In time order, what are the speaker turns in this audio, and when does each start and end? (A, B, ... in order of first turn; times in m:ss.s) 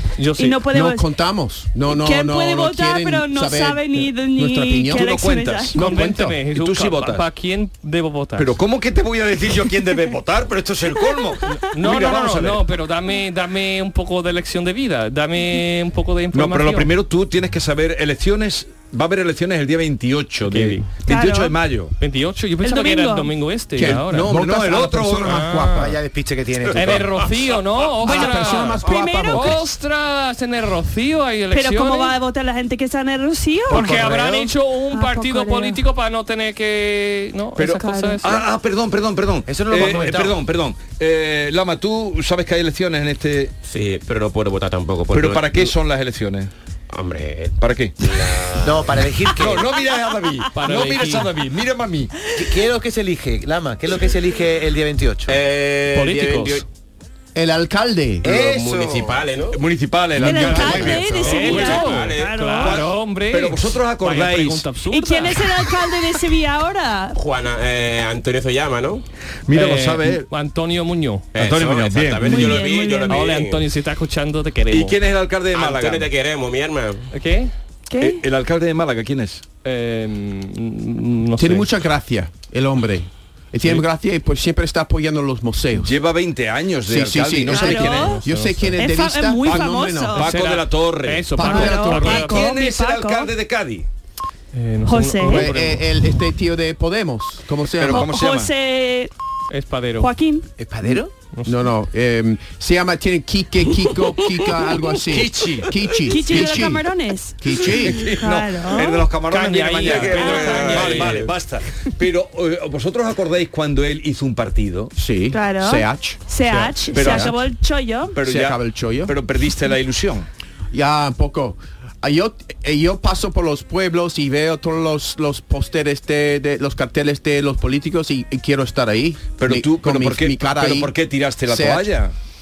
0:00.2-0:00.6 A
0:00.4-0:01.0 B
0:00.7-0:06.4 C
0:01.9-0:05.8 B
0:04.9-0:07.2 D
0:05.8-0:08.5 A
0:08.4-0:12.6 D
0:11.5-0:16.9 A
0:16.3-0:21.9 D
0:20.5-0:20.9 A
0:21.1-0:21.5 B
0:22.0-0:24.3 A
0:22.6-0:23.3 B
0:23.8-0:25.9 C
0:23.9-0:25.8 D
0:25.2-0:25.9 A
0:25.8-0:27.1 E
0:26.7-0:27.1 D
0:26.7-0:32.2 A
0:28.0-0:29.6 B
0:28.0-0:29.6 C
0:31.5-0:35.8 B
0:33.7-0:38.4 A
0:33.7-0:34.1 D
0:37.6-0:43.5 D
0:37.8-0:38.4 B
0:39.4-0:40.4 E
0:43.6-0:45.7 F
0:45.1-0:46.5 D
0:46.9-0:49.0 F
0:47.6-0:47.9 D
0:48.6-0:49.6 E
0:49.4-0:52.1 D
0:50.5-0:51.3 A
0:52.3-0:55.4 E
0:55.3-0:56.6 F
0:55.9-0:56.6 A
0:57.3-0:58.4 C
0:58.2-0:59.0 E
0:58.2-0:59.6 F
0:59.5-1:02.0 D
1:00.2-1:02.9 B
1:00.3-1:00.7 C
1:00.7-1:02.4 F
1:01.1-1:05.5 A
1:02.6-1:04.7 D
1:04.9-1:07.2 B
1:07.2-1:09.0 F
1:09.5-1:10.3 D
1:09.5-1:11.3 A
1:11.3-1:13.6 F
1:11.4-1:12.6 D
1:12.2-1:13.3 B
1:13.1-1:15.0 A
1:14.7-1:16.1 D
1:15.5-1:17.0 F
1:17.1-1:17.5 A
1:17.9-1:18.2 B
1:18.0-1:19.4 D
1:19.6-1:21.7 A
1:21.4-1:25.9 C
1:25.8-1:28.2 D
1:26.9-1:30.2 C
1:27.5-1:28.2 B
1:27.9-1:28.7 A
1:28.8-1:30.2 B
1:29.4-1:33.9 D
1:30.2-1:32.4 A
1:31.4-1:32.2 C
1:31.4-1:33.3 B
1:34.5-1:35.8 A
1:34.8-1:35.5 B
1:35.2-1:38.1 C
1:37.8-1:38.5 D
1:37.9-1:39.1 B
1:39.5-1:40.1 A
1:40.0-1:40.5 B
1:40.6-1:41.1 E
1:40.8-1:46.9 C
1:41.3-1:41.6 A
1:45.1-1:46.6 D
1:46.1-1:49.1 B
1:47.4-1:48.1 C
1:47.6-1:54.9 D
1:49.3-1:51.3 A
1:50.1-1:50.9 B
1:55.0-1:56.2 C
1:55.3-1:58.2 B
1:56.9-1:57.4 D
1:57.0-1:57.3 C
1:58.1-2:00.3 D
1:58.2-1:59.1 C
2:00.7-2:10.9 C
2:09.4-2:12.1 D
2:11.5-2:11.9 C